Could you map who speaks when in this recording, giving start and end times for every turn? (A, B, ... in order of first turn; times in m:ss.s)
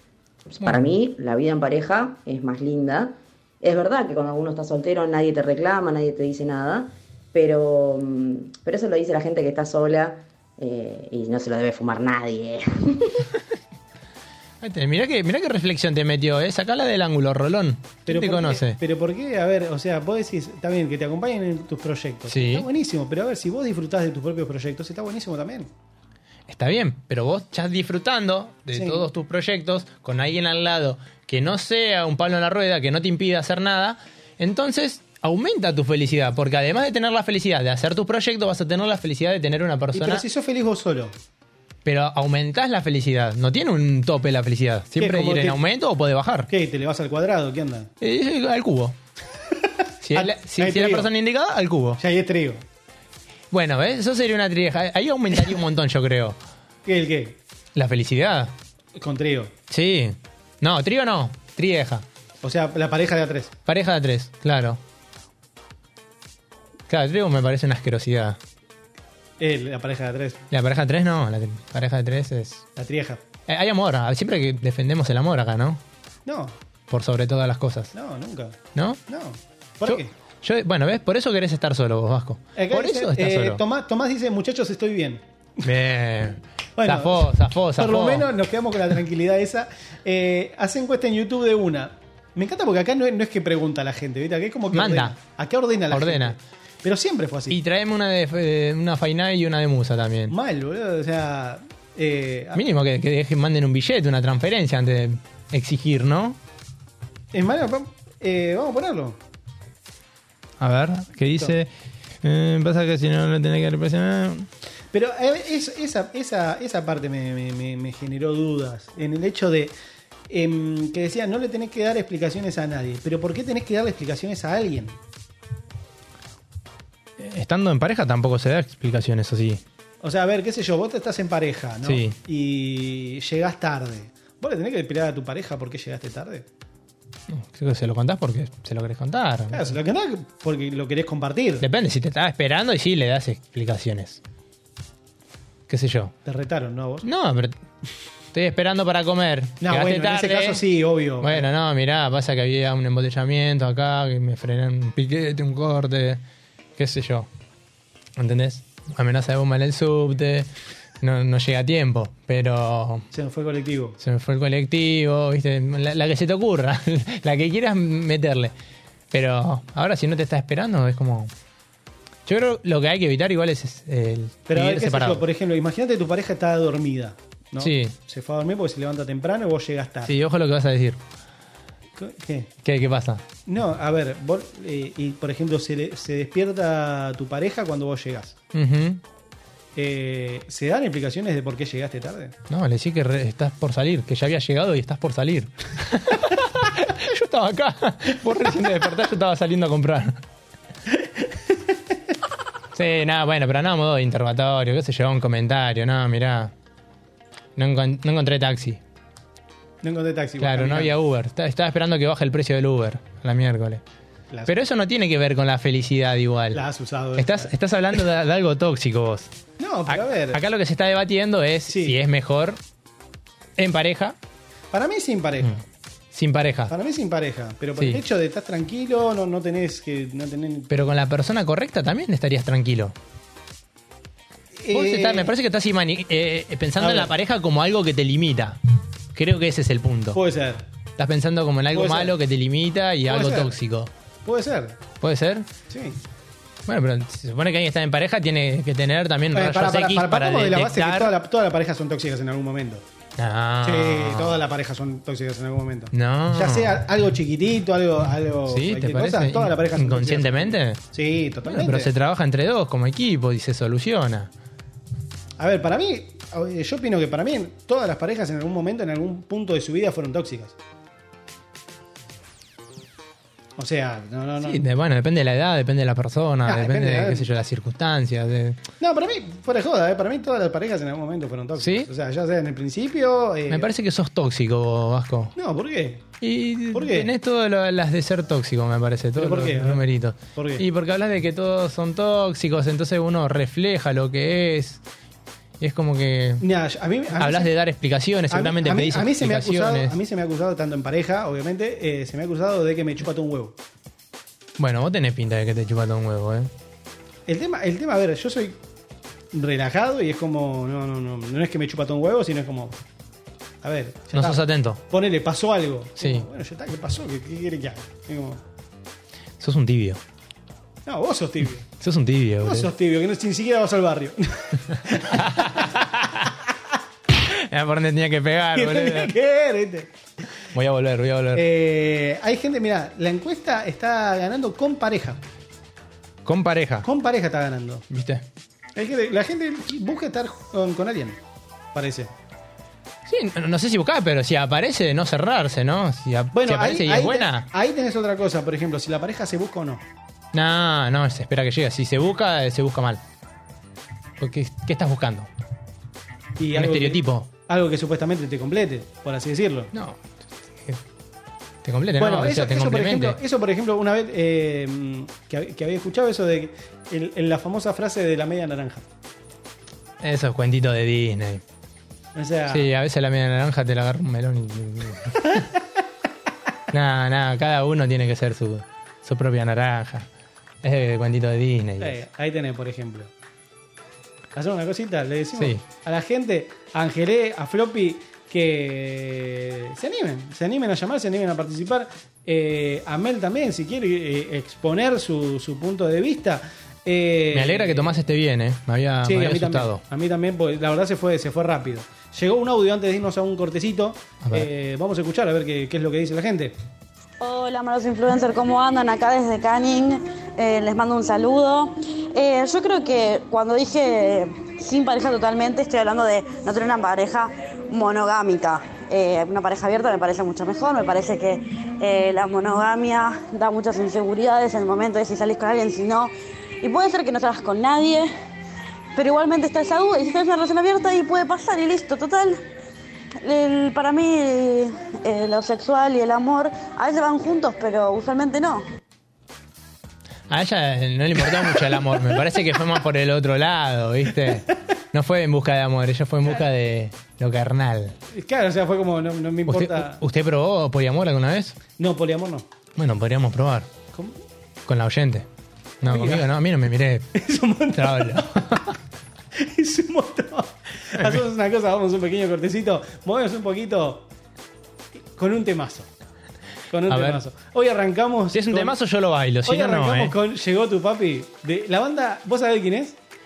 0:00.5-0:13.3 A
0:00.6-0:00.9 B
0:14.6-0:18.8 B
0:18.1-0:25.7 C
0:22.3-0:22.7 B
0:26.5-0:40.2 B
0:28.7-0:29.1 C
0:39.9-0:41.2 C
0:41.8-0:46.5 B
0:45.0-0:45.6 C
0:46.5-0:47.9 C
0:48.0-0:49.0 B
0:49.5-0:51.1 C
0:50.0-0:52.0 B
0:52.0-0:52.6 C
0:53.5-0:56.4 B
0:56.8-0:57.4 C
0:57.7-0:58.5 B
0:59.0-0:59.5 C
0:59.7-1:02.0 B
1:02.4-1:03.5 C
1:03.7-1:04.8 B
1:06.9-1:08.4 B
1:09.4-1:10.4 C
1:10.5-1:12.6 B
1:12.8-1:13.2 C
1:13.5-1:15.8 B
1:16.2-1:16.5 C
1:16.9-1:17.9 B
1:17.9-1:20.1 C
1:18.7-1:19.0 B
1:19.8-1:23.6 B
1:22.6-1:25.2 C
1:25.6-1:28.3 B
1:26.8-1:37.6 C
1:34.7-1:35.2 B
1:35.9-1:36.4 B
1:37.5-1:40.3 B
1:40.3-1:42.6 C
1:42.5-1:46.4 B
1:47.3-1:49.2 C
1:50.6-1:51.7 B
1:52.2-1:54.5 B
1:54.9-1:59.7 C
2:00.3-2:05.0 C
2:07.2-2:09.6 B
2:10.0-2:16.5 C
2:11.8-2:12.2 B
2:17.3-2:19.7 B
2:19.5-2:21.6 C
2:21.6-2:24.2 B
2:25.7-2:26.1 B
2:26.2-2:27.1 C
2:27.0-2:27.6 B
2:28.3-2:30.6 B
2:29.6-2:31.5 C
2:31.2-2:36.2 B
2:36.8-2:37.3 B
2:38.2-2:40.5 B
2:41.0-2:43.1 B
2:43.1-2:44.0 C
2:44.0-2:48.5 B
2:49.1-2:51.3 B
2:52.2-2:55.2 B
2:54.5-3:00.1 C
2:57.6-2:57.9 B
3:00.0-3:01.0 B
3:02.0-3:02.5 C
3:02.6-3:03.2 B
3:03.4-3:08.4 C
3:08.5-3:09.0 B
3:09.7-3:12.4 C
3:12.5-3:20.2 B
3:21.0-3:21.7 C
3:22.7-3:26.5 B
3:27.6-3:28.8 B
3:29.8-3:30.9 C
3:30.4-3:33.8 B
3:34.5-3:36.6 B
3:36.5-3:37.5 C
3:37.2-3:39.3 B
3:39.6-3:40.4 C
3:39.9-3:42.6 B
3:41.7-3:42.0 C
3:43.6-3:44.2 B
3:44.7-3:45.6 C
3:46.1-3:46.7 B
3:46.7-3:50.7 C
3:50.7-3:52.9 B
3:54.5-3:55.3 C
3:54.7-3:58.6 B
3:56.8-3:57.1 C
3:59.1-4:00.2 B
4:00.1-4:00.6 C
4:01.0-4:03.9 B
4:01.7-4:02.2 C
4:03.1-4:03.6 C
4:04.2-4:04.8 C
4:05.0-4:05.5 B
4:05.7-4:06.0 C
4:06.7-4:11.1 B
4:09.3-4:12.8 C
4:13.2-4:14.4 B
4:13.6-4:21.9 C
4:15.9-4:16.8 B
4:18.5-4:20.8 B
4:21.4-4:24.3 B
4:25.4-4:30.6 C
4:33.6-4:34.6 C
4:34.4-4:38.6 B
4:36.4-4:37.3 C
4:38.8-4:43.7 C
4:41.6-4:41.9 B
4:43.5-4:45.3 B
4:45.4-4:46.1 C
4:46.2-4:54.8 B
4:46.7-4:47.1 C
4:49.2-4:50.6 C
4:55.6-4:56.4 B
4:56.4-4:57.5 C
4:57.1-5:00.0 B
4:58.3-5:03.6 C
5:04.6-5:06.5 B
5:07.3-5:08.6 C
5:09.3-5:12.8 C
5:13.6-5:18.4 C
5:14.1-5:14.8 B
5:16.0-5:16.3 B
5:19.4-5:20.0 B
5:20.8-5:21.7 C
5:21.8-5:22.7 B
5:22.4-5:25.7 C
5:25.0-5:26.2 B
5:27.2-5:29.1 B
5:28.5-5:29.9 C
5:30.5-5:31.4 B
5:31.3-5:35.2 C
5:36.2-5:36.9 B
5:36.8-5:37.8 C
5:37.9-5:38.2 B
5:38.7-5:41.2 C
5:41.7-5:42.1 C
5:43.0-5:47.5 B
5:46.3-5:49.8 C
5:50.3-5:53.0 B
5:54.2-5:55.3 B
5:56.4-5:59.7 C
5:56.5-5:57.3 B
5:59.7-6:00.8 B
6:01.6-6:03.2 B
6:02.0-6:08.8 C
6:10.0-6:11.4 B
6:12.1-6:12.7 C
6:12.5-6:15.5 B
6:16.7-6:20.1 B
6:20.6-6:22.0 B
6:21.8-6:23.1 C
6:24.3-6:38.0 C
6:25.4-6:25.6 B
6:37.3-6:39.8 B
6:39.0-6:46.6 C
6:44.2-6:44.5 B
6:47.2-7:08.1 D
7:08.9-7:12.4 D
7:13.2-7:18.6 D
7:20.3-7:27.9 B
7:28.1-7:30.0 C
7:29.5-7:31.6 B
7:31.8-7:32.5 C
7:32.8-7:33.7 B
7:33.9-7:34.2 C
7:34.6-7:35.3 B
7:35.8-7:37.1 B
7:35.8-7:36.3 C
7:37.1-7:38.7 C
7:37.8-7:38.7 B
7:39.3-7:44.1 C
7:45.1-7:45.9 C
7:46.7-7:48.8 C
7:46.9-7:47.2 B
7:48.3-7:50.1 B
7:49.4-7:53.0 C